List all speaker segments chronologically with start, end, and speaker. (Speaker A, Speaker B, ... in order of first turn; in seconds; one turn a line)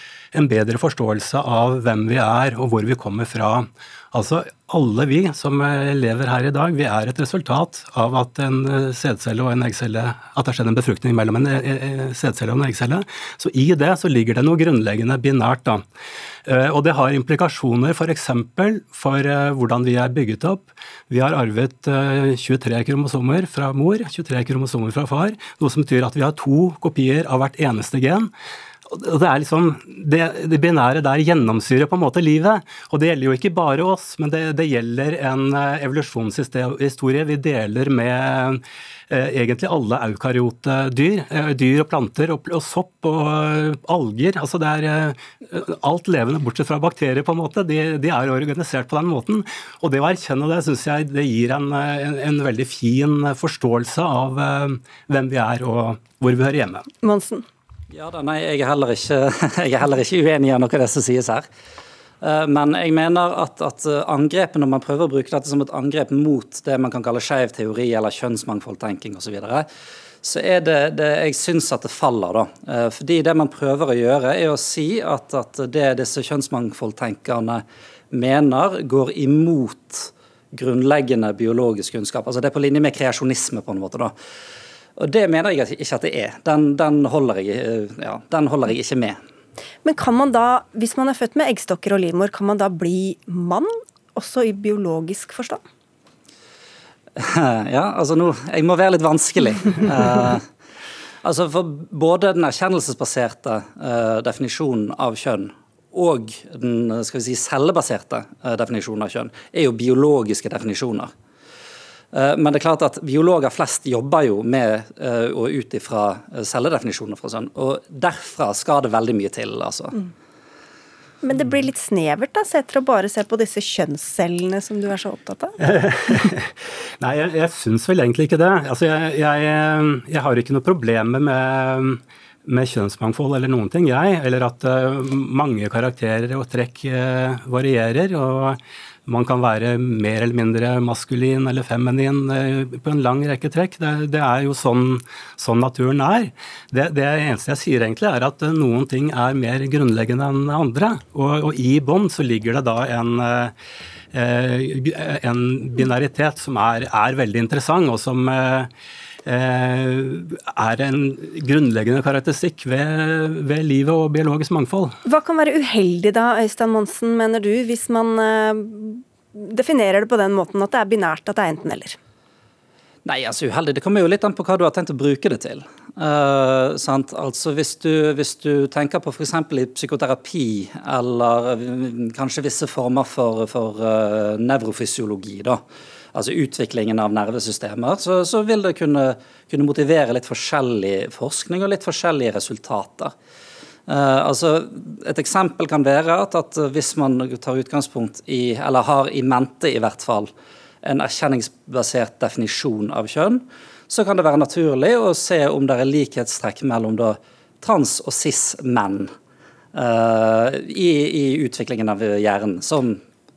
Speaker A: 0.3-15.8
Speaker A: 16.4-28.3
Speaker A: 28.9-56.9
Speaker B: 57.0-57.4
Speaker C: 57.9-61.5
Speaker C: 62.2-69.7
Speaker C: 70.2-84.1
Speaker C: 85.0-89.2
Speaker B: 89.8-95.6
Speaker C: 97.2-100.4
Speaker C: 101.2-111.1
Speaker C: 112.1-119.9
Speaker B: 121.2-125.5
Speaker A: 125.6-153.5
Speaker A: 154.1-158.7
Speaker A: 159.2-165.0
Speaker B: 165.0-172.0
Speaker C: 173.0-185.6
Speaker C: 186.1-193.1
Speaker C: 193.9-200.3
Speaker C: 200.8-209.1
Speaker C: 209.7-213.0